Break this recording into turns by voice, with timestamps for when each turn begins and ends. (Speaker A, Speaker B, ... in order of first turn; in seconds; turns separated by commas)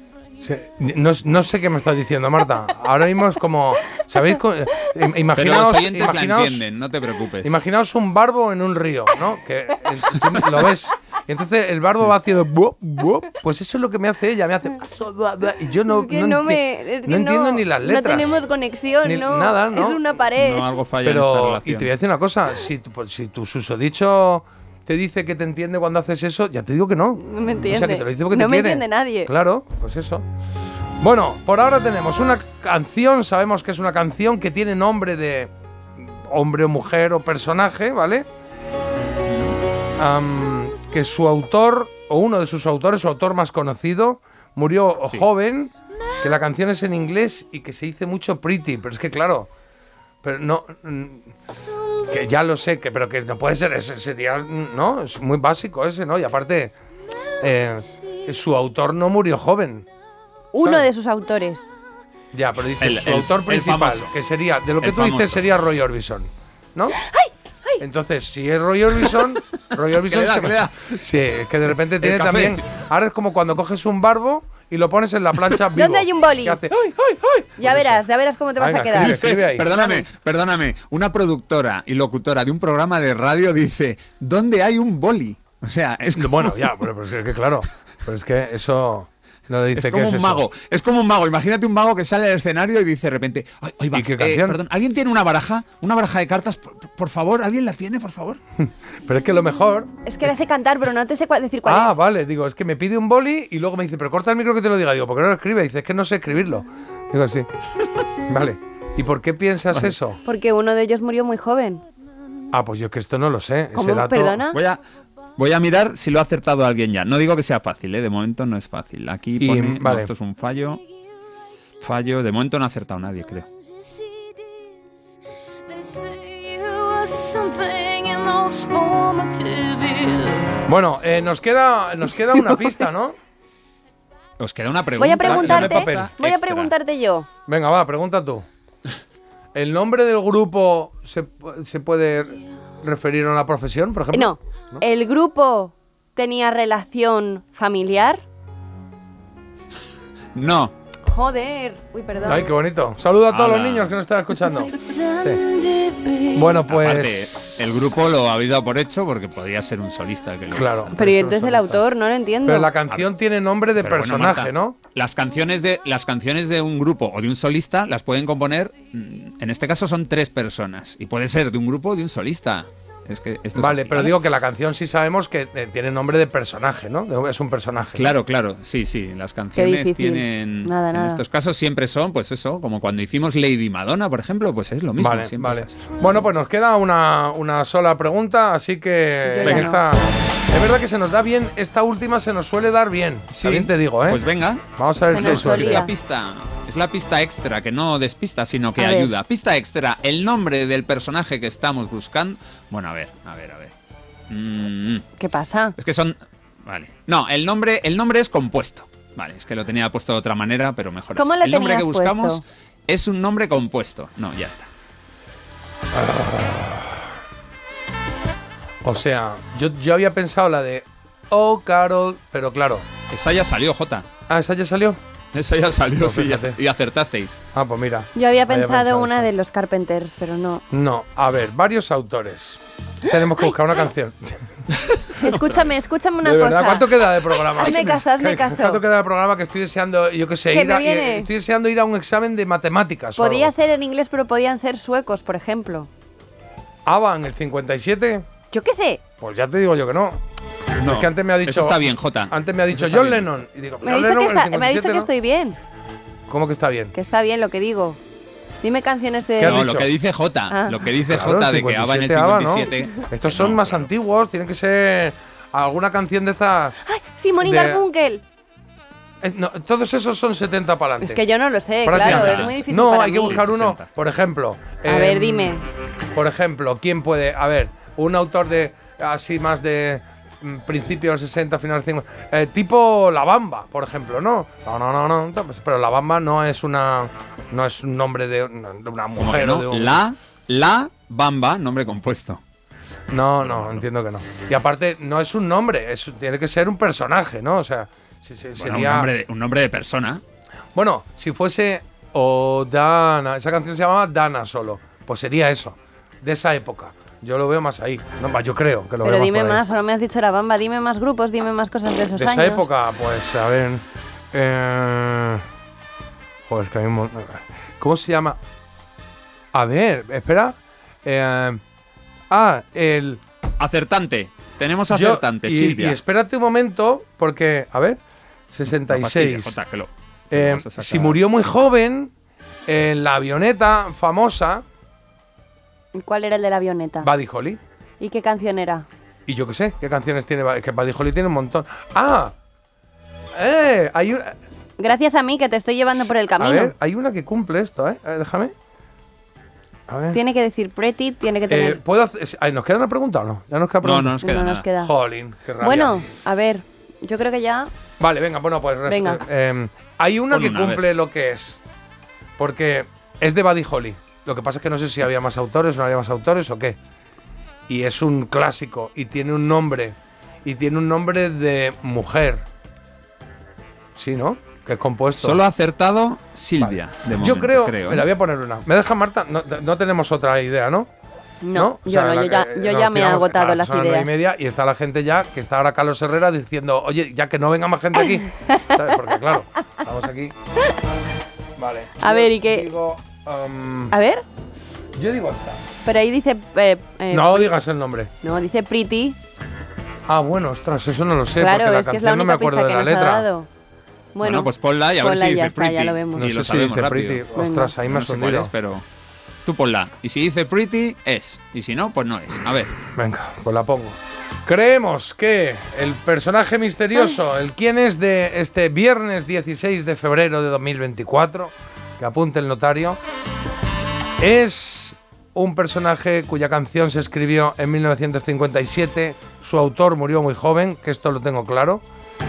Speaker A: 0.4-6.6, Speaker B: 5.3-7.5, Speaker A: 7.4-18.4, Speaker C: 15.9-20.7, Speaker A: 19.0-20.0, Speaker B: 20.3-21.9, Speaker A: 21.0-30.2, Speaker C: 27.2-29.3, Speaker A: 31.0-35.5, Speaker A: 36.2-38.3, Speaker B: 39.2-39.6, Speaker A: 40.0-49.5, Speaker A: 50.2-51.3, Speaker A: 52.0-56.7, Speaker A: 57.4-59.9, Speaker C: 60.5-61.6, Speaker A: 60.6-60.9, Speaker A: 62.3-67.0, Speaker B: 62.8-64.1, Speaker B: 64.8-65.4, Speaker C: 67.0-67.8, Speaker A: 67.8-78.0, Speaker B: 69.8-70.9, Speaker B: 72.0-72.6, Speaker C: 75.7-76.6, Speaker C: 77.6-79.2, Speaker A: 78.6-79.7, Speaker B: 79.0-86.7, Speaker A: 86.0-90.4, Speaker B: 89.8-98.4, Speaker A: 93.9-94.6, Speaker A: 98.6-99.9, Speaker C: 100.0-101.9, Speaker A: 101.6-107.5, Speaker A: 108.3-110.2, Speaker C: 110.2-111.8, Speaker A: 112.5-114.4, Speaker C: 113.7-114.6, Speaker B: 114.5-114.8, Speaker B: 115.4-120.8, Speaker A: 119.4-120.1, Speaker B: 121.8-123.5, Speaker D: 124.0-124.8, Speaker D: 125.7-130.7, Speaker A: 130.7-133.1, Speaker B: 134.4-136.7, Speaker C: 135.0-137.3, Speaker A: 135.2-136.1, Speaker A: 137.5-138.4, Speaker A: 139.5-144.8, Speaker C: 144.1-148.2, Speaker B: 150.3-150.7, Speaker C: 151.1-152.5, Speaker A: 152.2-155.4, Speaker B: 153.3-153.9, Speaker D: 154.6-156.6, Speaker A: 156.3-157.7, Speaker B: 156.7-160.9, Speaker A: 160.5-161.8, Speaker C: 160.9-162.7, Speaker A: 162.4-164.8, Speaker B: 163.8-174.2, Speaker A: 173.6-178.1, Speaker B: 177.9-186.0, Speaker C: 179.6-181.2, Speaker A: 185.0-194.2, Speaker C: 189.2-189.8, Speaker B: 189.4-189.7, Speaker B: 193.3-203.7, Speaker A: 194.8-195.9, Speaker C: 195.1-195.9, Speaker C: 198.8-199.1, Speaker B: 204.3-205.0, Speaker C: 205.2-205.8, Speaker B: 205.8-214.7, Speaker C: 211.2-212.4, Speaker A: 215.9-217.0, Speaker A: 218.8-222.8, Speaker B: 223.1-224.1, Speaker A: 224.3-225.0, Speaker B: 225.3-227.4, Speaker A: 226.0-226.6, Speaker A: 227.5-229.3, Speaker C: 228.1-230.6, Speaker A: 230.7-234.4, Speaker B: 234.7-235.7, Speaker C: 235.1-236.9, Speaker A: 236.2-243.5, Speaker C: 237.5-238.8, Speaker C: 240.5-241.3, Speaker C: 243.2-245.9, Speaker A: 246.8-248.2, Speaker C: 248.5-249.0, Speaker A: 249.2-250.2, Speaker B: 250.8-253.3, Speaker A: 250.8-255.1, Speaker C: 253.8-255.6, Speaker A: 256.3-256.9, Speaker C: 256.9-258.0, Speaker C: 258.6-259.7, Speaker A: 259.4-259.9, Speaker B: 259.4-263.9, Speaker C: 260.5-260.8, Speaker A: 261.1-266.8, Speaker C: 266.8-268.2, Speaker A: 267.4-267.8, Speaker A: 269.2-271.2, Speaker C: 271.0-273.4, Speaker A: 271.8-275.6, Speaker B: 271.9-273.9, Speaker C: 274.9-275.6, Speaker A: 276.1-290.0, Speaker B: 289.2-292.4, Speaker A: 293.1-299.1, Speaker B: 293.4-293.9, Speaker B: 298.6-300.2, Speaker A: 300.7-309.6, Speaker C: 309.0-312.6, Speaker A: 312.1-315.4, Speaker A: 316.5-318.4, Speaker A: 319.5-321.6, Speaker A: 322.3-323.2, Speaker B: 323.6-326.0, Speaker A: 324.9-328.0, Speaker A: 328.5-329.6, Speaker B: 328.9-331.2, Speaker A: 330.3-332.1, Speaker A: 332.7-334.6, Speaker C: 335.9-337.1, Speaker A: 337.0-337.6, Speaker C: 338.0-338.9, Speaker A: 339.3-342.3, Speaker A: 343.4-344.3, Speaker C: 344.8-346.7, Speaker A: 345.9-348.5, Speaker A: 349.9-350.2, Speaker C: 350.1-351.8, Speaker A: 351.5-354.2, Speaker B: 353.8-354.6, Speaker C: 354.2-354.9, Speaker A: 354.8-356.0, Speaker C: 355.6-357.7, Speaker A: 358.0-361.6, Speaker C: 358.9-359.2, Speaker B: 360.3-360.8, Speaker A: 362.4-366.8, Speaker A: 367.7-372.4, Speaker A: 373.9-375.4, Speaker B: 375.2-378.1, Speaker A: 376.6-380.9, Speaker C: 381.4-384.1, Speaker A: 381.5-390.3, Speaker C: 388.4-388.8, Speaker A: 391.6-393.9, Speaker C: 392.0-392.7, Speaker C: 393.9-394.2, Speaker A: 394.9-395.6, Speaker C: 395.8-397.6, Speaker A: 397.1-398.1, Speaker C: 398.2-399.2, Speaker A: 400.1-403.3, Speaker C: 401.4-403.5, Speaker C: 404.1-406.3, Speaker B: 404.2-407.3, Speaker A: 406.1-408.5, Speaker C: 407.3-407.7, Speaker B: 407.8-408.8, Speaker B: 409.4-412.7, Speaker A: 412.9-423.0, Speaker C: 416.9-417.2, Speaker A: 424.2-431.8